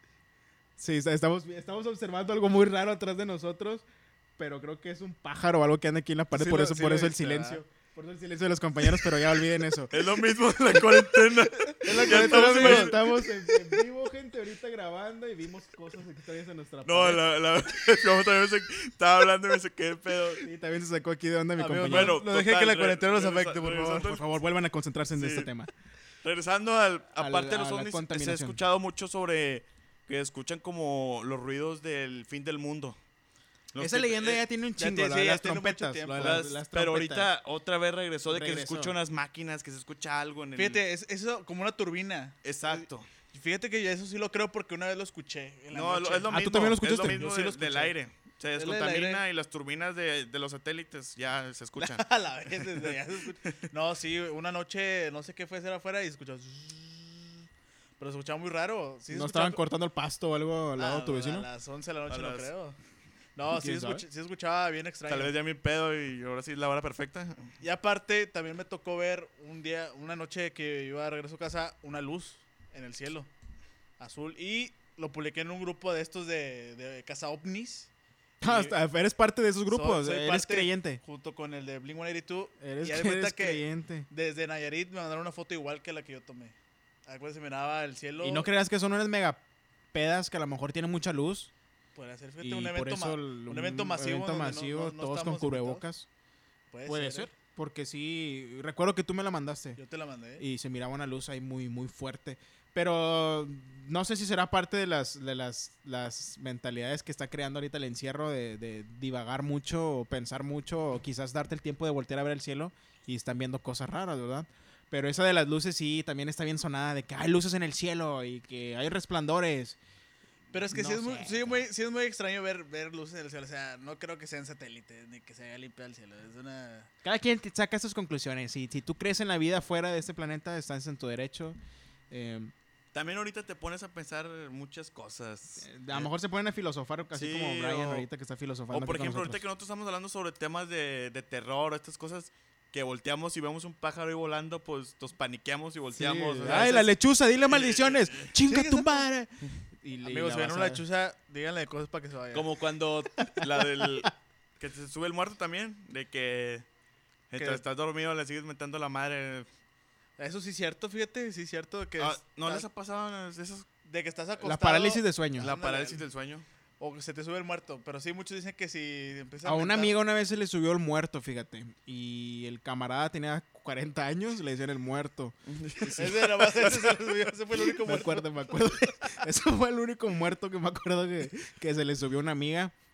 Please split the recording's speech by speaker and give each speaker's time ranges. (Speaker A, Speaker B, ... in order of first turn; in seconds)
Speaker A: 0.8-3.8, 4.4-10.0, 11.8-17.2, 20.4-22.2, 24.0-25.7, 27.2-28.6, 33.8-37.3, 38.2-38.9, 46.3-47.2, 59.1-61.5, 63.5-64.0, 78.4-81.0, 82.6-84.1, 88.2-89.4, 89.9-91.5, 92.4-96.1, 96.8-99.8, 100.4-119.8, 120.7-121.7, 127.0-131.6, 132.1-132.5, 135.6-139.4, 145.9-150.8, 164.4-165.5, 169.4-176.2, 177.8-182.7
Speaker B: 6.3-7.6, 11.8-13.1, 21.6-24.1, 34.8-36.5, 40.5-46.4, 47.0-47.9, 48.5-49.2, 51.8-57.4, 58.0-59.6, 60.8-62.8, 63.4-65.3, 67.6-73.3, 74.0-77.9, 78.4-78.8, 79.7-86.5, 87.0-88.5, 91.9-95.8, 96.7-97.3, 99.8-100.4, 120.5-126.9, 146.5-146.7, 148.4-149.1, 150.0-152.5, 157.4-157.6, 160.2-162.6, 163.8-166.0, 166.8-169.9, 175.9-178.3
Speaker C: 9.9-13.0, 16.8-20.4, 21.9-24.2, 25.1-25.5, 26.2-33.0, 33.7-34.4, 36.2-40.8, 42.4-43.1, 45.7-53.6, 62.1-62.5, 65.1-67.6, 132.9-136.1, 137.1-138.1, 138.7-146.9, 147.4-148.3, 152.3-156.7, 157.3-159.5, 162.0-163.7, 165.4-166.4, 175.4-177.0